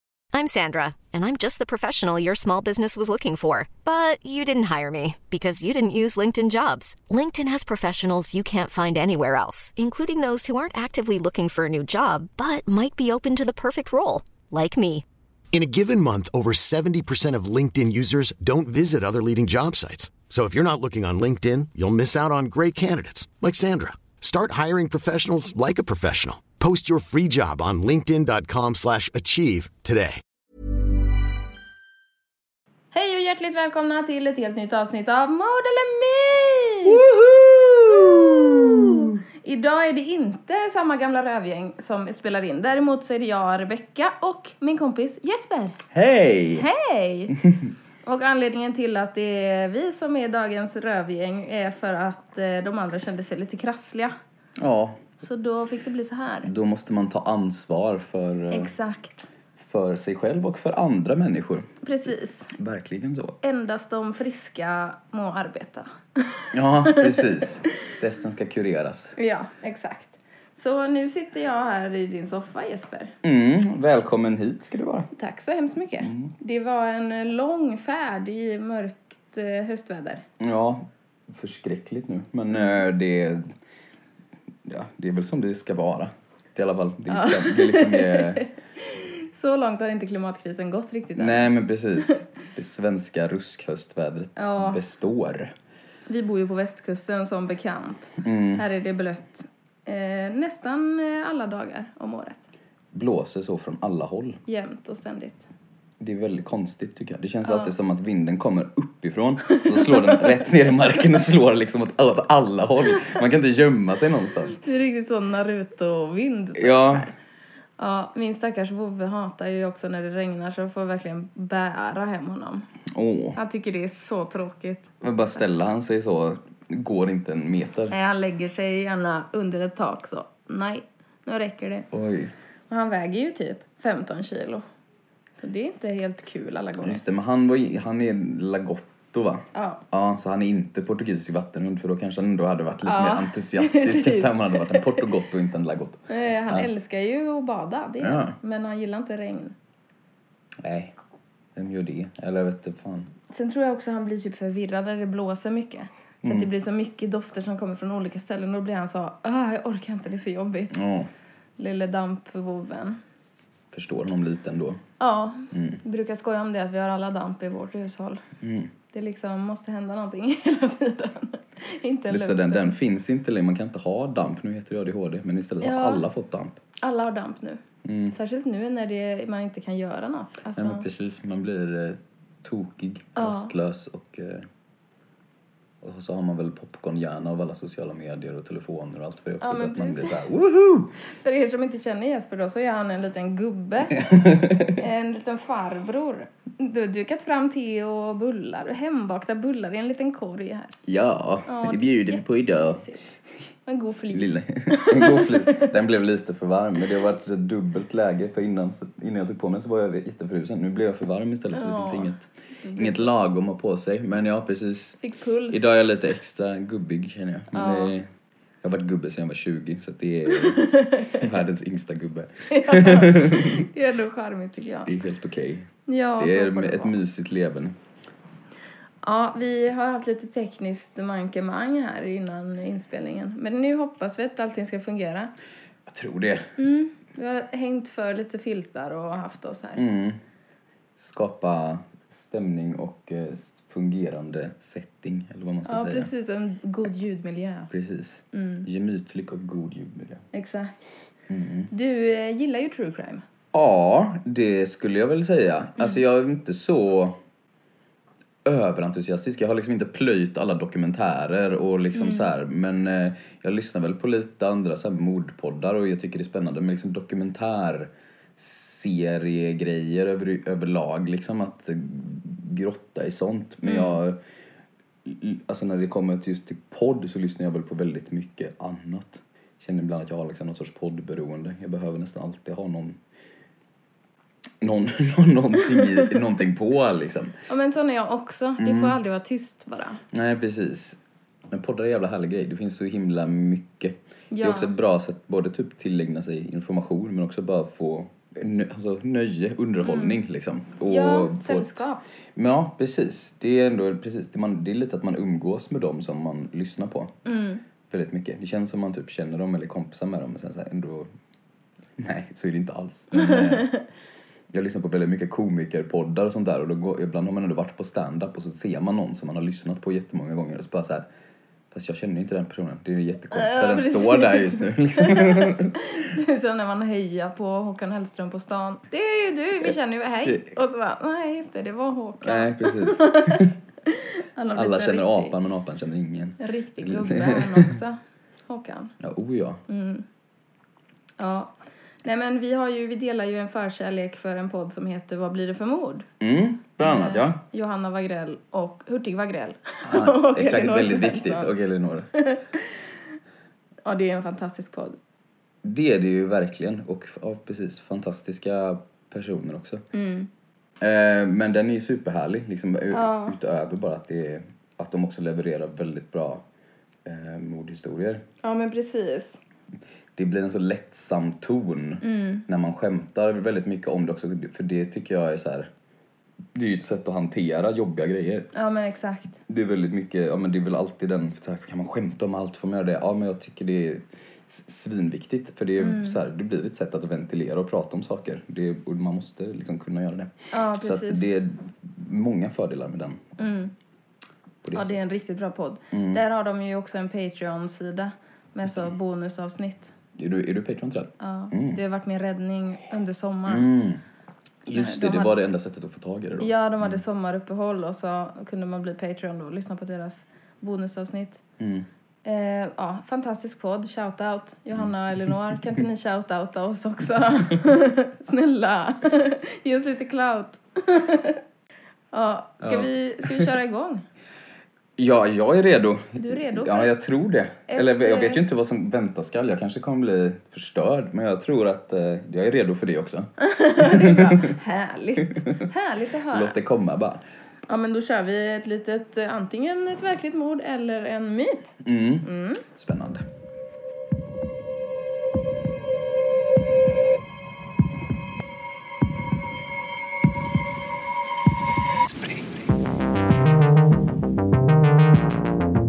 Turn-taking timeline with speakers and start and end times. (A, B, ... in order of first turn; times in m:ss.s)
0:00.3-0:15.0 A
0:15.5-0:30.2 B
0:32.9-0:37.0 C
0:36.8-0:39.2 D
0:38.5-0:45.8 C
0:45.9-0:46.7 D
0:46.5-0:47.4 C
0:48.0-0:54.2 C
0:54.6-0:55.0 D
0:55.2-0:56.5 C
0:56.4-0:58.7 D
0:58.5-0:59.3 C
0:59.6-1:03.4 D
1:01.8-1:02.5 C
1:03.4-1:07.2 C
1:06.5-1:09.2 D
1:09.2-1:13.1 C
1:13.2-1:15.1 D
1:15.2-1:20.2 C
1:16.0-1:16.3 D
1:20.4-1:23.5 D
1:24.6-1:28.4 D
1:27.1-1:31.5 C
1:31.2-1:35.5 D
1:34.4-1:34.8 C
1:36.1-1:42.4 C
1:38.2-1:38.6 D
1:42.9-1:44.4 D
1:44.5-1:45.5 C
1:46.0-1:54.6 D
1:47.4-1:47.7 C
1:49.5-1:50.3 C
1:54.5-1:57.2 C
1:56.6-1:57.1 D
1:57.8-2:02.7 C
2:02.9-2:03.4 D
2:03.4-2:05.4 C
2:05.0-2:08.0 D
2:07.9-2:11.9 C
2:11.9-2:12.3 D
2:12.7-2:14.6 C
2:15.4-2:17.0 C
2:16.8-2:26.7 D
2:19.5-2:19.8 C
2:22.8-2:25.0 C
2:26.1-2:29.5 C
2:28.0-2:28.4 D
2:30.6-2:30.9 D
2:31.6-2:33.1 D
2:33.3-2:40.7 C
2:36.2-2:36.5 D
2:40.7-2:41.1 D
2:41.6-2:43.0 C
2:43.7-2:44.8 D
2:45.0-2:48.2 C
2:45.5-2:45.8 D
2:48.4-2:48.7 D
2:48.9-2:52.7 C
2:52.1-2:56.6 D
2:55.6-2:56.0 C
2:56.8-2:57.6 C
2:57.8-2:58.2 D
2:58.1-3:00.9 C
3:00.6-3:04.5 D
3:03.2-3:03.5 C
3:05.8-3:10.9 D
3:09.4-3:10.2 C
3:11.2-3:20.7 C
3:14.1-3:14.7 D
3:20.9-3:22.8 D
3:21.5-3:23.0 C
3:23.7-3:25.7 C
3:24.1-3:35.0 D
3:31.5-3:33.1 C
3:35.0-3:35.7 C
3:35.5-3:38.1 D
3:37.5-3:38.0 C
3:38.6-3:43.7 D
3:40.4-3:41.3 C
3:42.5-3:44.9 C
3:44.9-3:47.8 D
3:45.9-3:47.0 C
3:49.0-3:55.3 C
3:55.9-3:56.5 D
3:56.6-3:59.8 C
3:59.8-4:00.2 D
4:01.0-4:06.1 D
4:05.7-4:07.7 C
4:07.7-4:10.2 D
4:08.3-4:08.7 C
4:10.3-4:10.8 C
4:11.3-4:11.7 D
4:11.7-4:13.2 C
4:13.5-4:17.2 D
4:18.4-4:34.2 D
4:21.9-4:22.3 C
4:33.6-4:34.0 C
4:35.0-4:43.0 D
4:44.6-4:47.3 D
4:47.5-4:50.0 C
4:48.6-4:49.0 D
4:50.1-4:51.0 D
4:51.5-5:07.1 D
4:54.3-4:54.7 C
4:59.8-5:00.2 C
5:00.9-5:02.0 C
5:07.2-5:07.6 C
5:07.9-5:11.1 D
5:12.0-5:13.7 D
5:13.1-5:13.8 C
5:14.5-5:21.1 D
5:21.7-5:25.8 D
5:23.3-5:35.4 C
5:29.6-5:30.5 D
5:32.2-5:33.5 D
5:34.5-5:37.7 D
5:36.4-5:38.9 C
5:39.0-5:39.6 D
5:39.7-5:40.0 C
5:41.2-5:46.1 C
5:46.2-5:47.4 D
5:46.8-5:51.5 C
5:49.9-5:52.1 D
5:52.2-5:52.6 C
5:53.8-5:55.0 C
5:55.6-5:59.8 D
5:59.9-6:00.3 C
6:00.8-6:06.4 D
6:02.9-6:03.4 C
6:07.0-6:08.2 D
6:08.4-6:09.4 C
6:10.2-6:15.7 D
6:12.0-6:12.4 C
6:16.5-6:18.5 D
6:18.5-6:19.4 C
6:19.5-6:33.2 D
6:25.8-6:26.2 C
6:30.5-6:31.3 C
6:33.4-6:33.7 C
6:34.6-6:35.0 D
6:34.7-6:39.9 C
6:35.9-6:36.2 D
6:40.2-6:41.8 D
6:41.2-6:43.7 C
6:43.5-6:44.0 D
6:44.7-6:47.0 D
6:44.7-6:45.4 C
6:46.4-6:51.4 C
6:51.6-6:51.9 D
6:52.2-7:01.4 C
7:02.1-7:04.0 C
7:02.6-7:03.5 D
7:05.0-7:14.4 D
7:06.2-7:06.9 C
7:07.7-7:08.4 C
7:13.4-7:16.6 C
7:16.3-7:17.2 D
7:17.7-7:22.6 C
7:21.8-7:23.2 D